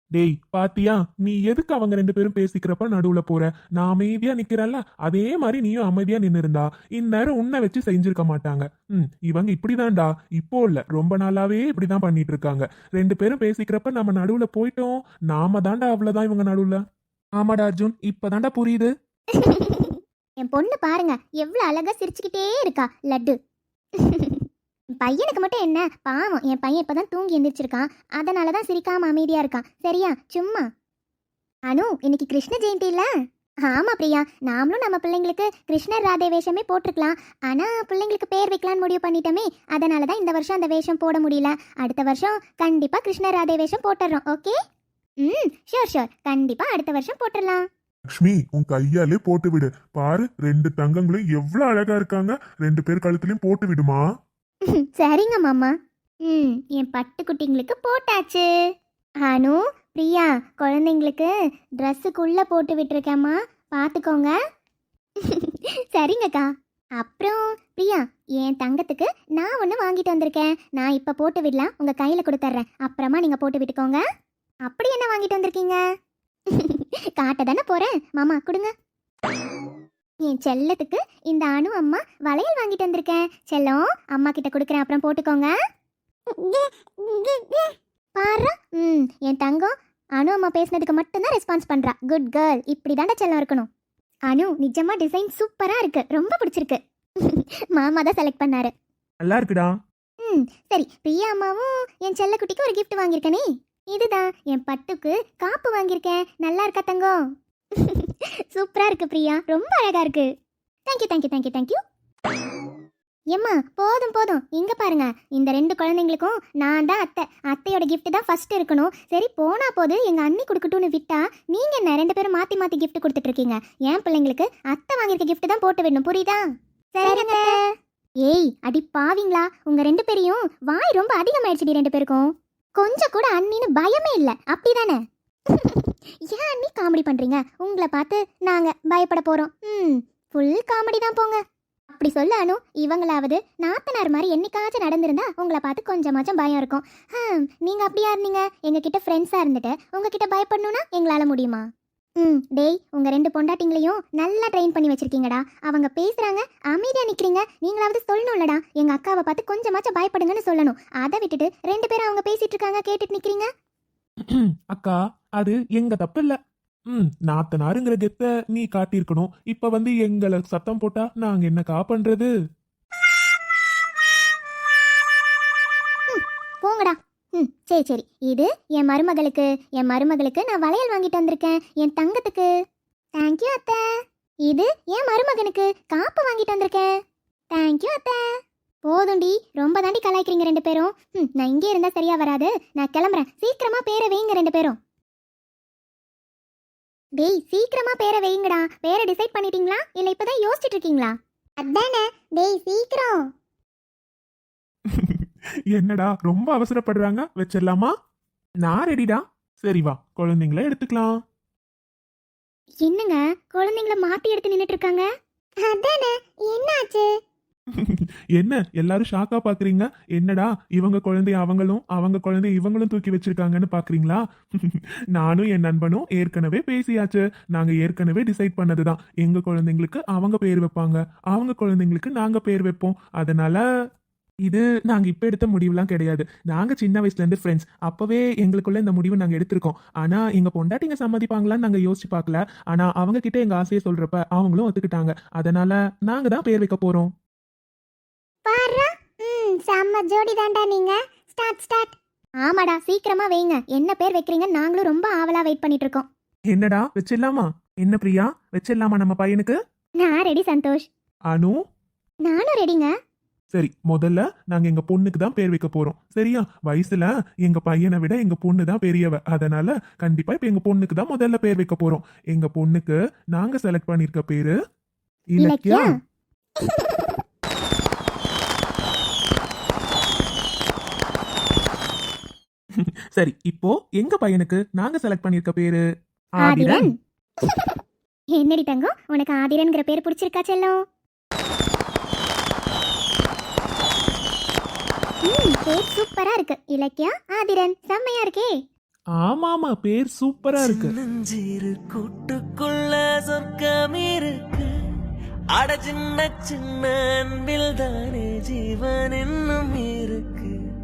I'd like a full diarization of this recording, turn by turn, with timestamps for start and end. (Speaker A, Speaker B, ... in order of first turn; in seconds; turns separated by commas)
Speaker A: 0.1-16.8, Speaker A: 17.4-18.9, Speaker B: 19.3-23.4, Speaker B: 24.0-24.4, Speaker B: 25.0-30.6, Speaker B: 31.7-33.1, Speaker B: 33.6-44.5, Speaker B: 45.2-47.6, Speaker A: 48.1-54.0, Speaker B: 54.7-58.5, Speaker B: 59.2-61.3, Speaker B: 61.8-64.3, Speaker B: 65.2-74.0, Speaker B: 74.7-75.8, Speaker B: 76.5-78.7, Speaker B: 80.2-85.5, Speaker B: 86.5-87.6, Speaker B: 88.2-93.7, Speaker B: 94.3-98.7, Speaker A: 99.2-99.7, Speaker B: 100.2-107.2, Speaker B: 107.8-110.3, Speaker B: 110.9-111.8, Speaker B: 113.3-126.4, Speaker B: 127.0-127.5, Speaker B: 128.2-135.0, Speaker B: 135.5-141.4, Speaker B: 141.9-151.7, Speaker B: 152.2-163.5, Speaker A: 164.3-166.4, Speaker A: 166.9-172.3, Speaker B: 176.1-182.5, Speaker B: 183.2-183.8, Speaker B: 184.5-186.9, Speaker B: 187.5-188.2, Speaker B: 188.8-194.8, Speaker B: 197.2-203.2, Speaker A: 204.9-207.9, Speaker A: 208.6-211.1, Speaker B: 212.8-215.1, Speaker B: 215.6-217.1, Speaker A: 217.8-233.6, Speaker A: 234.4-247.1, Speaker B: 248.4-256.1, Speaker A: 256.5-259.6, Speaker B: 260.0-260.9, Speaker A: 261.3-261.6, Speaker B: 262.2-262.9, Speaker A: 263.5-274.5, Speaker A: 275.3-275.9, Speaker B: 275.4-275.9, Speaker B: 276.6-277.1, Speaker A: 282.8-285.8, Speaker A: 286.4-286.9, Speaker B: 286.4-287.7, Speaker B: 288.3-290.8, Speaker B: 295.2-298.5, Speaker A: 299.2-300.9, Speaker C: 300.6-304.7, Speaker C: 305.6-310.5